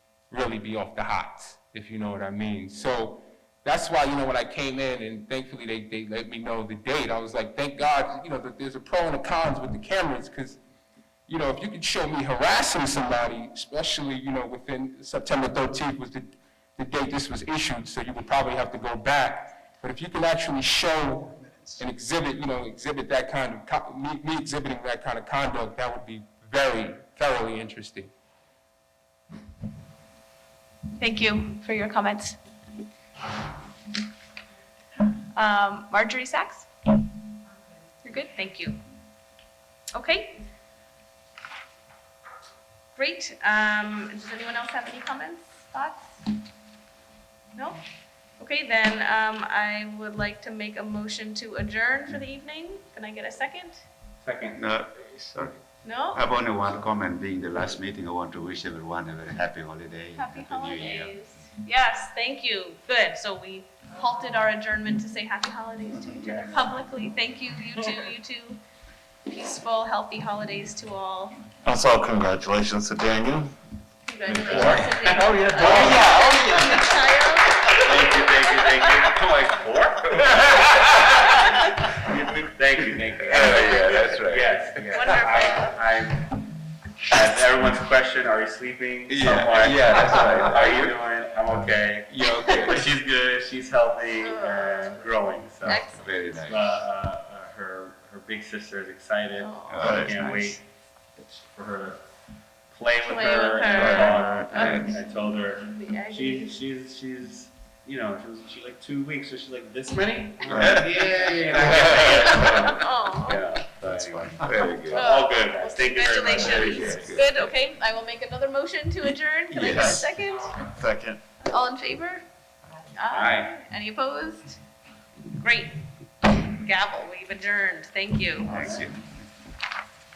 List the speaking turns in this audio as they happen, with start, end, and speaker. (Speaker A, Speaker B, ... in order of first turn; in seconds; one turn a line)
Speaker A: 0.3-10.6
Speaker A: 11.3-28.1
Speaker B: 31.0-32.4
Speaker B: 35.3-36.7
Speaker B: 38.0-38.8
Speaker B: 39.9-40.4
Speaker B: 42.9-46.1
Speaker B: 47.5-47.8
Speaker B: 48.4-53.8
Speaker C: 54.2-54.6
Speaker D: 54.5-61.2
Speaker B: 55.8-56.2
Speaker B: 60.1-68.6
Speaker B: 69.2-71.4
Speaker E: 71.6-73.5
Speaker B: 74.0-78.9
Speaker C: 74.3-76.0
Speaker A: 75.2-76.8
Speaker C: 77.8-86.3
Speaker E: 83.2-84.5
Speaker B: 83.3-84.0
Speaker B: 84.9-85.8
Speaker C: 87.1-95.8
Speaker E: 89.3-90.9
Speaker A: 89.6-90.5
Speaker A: 92.1-92.8
Speaker B: 94.2-95.0
Speaker B: 95.6-96.4
Speaker E: 95.7-96.8
Speaker C: 96.4-100.6
Speaker B: 99.4-99.8
Speaker D: 99.7-100.3
Speaker E: 99.7-100.5
Speaker C: 101.1-102.0
Speaker C: 102.7-114.4
Speaker B: 103.0-105.0
Speaker E: 103.7-104.9
Speaker B: 105.6-106.6
Speaker E: 110.5-110.9
Speaker E: 111.5-112.4
Speaker B: 111.9-113.4
Speaker D: 113.8-114.6
Speaker E: 114.4-115.1
Speaker B: 114.8-120.6
Speaker C: 114.9-117.3
Speaker E: 116.4-117.2
Speaker C: 119.6-120.0
Speaker E: 119.7-120.0
Speaker E: 120.6-121.2
Speaker B: 121.4-122.2
Speaker B: 122.9-124.6
Speaker C: 123.1-123.5
Speaker B: 125.4-128.6
Speaker D: 128.5-129.2
Speaker C: 128.5-128.9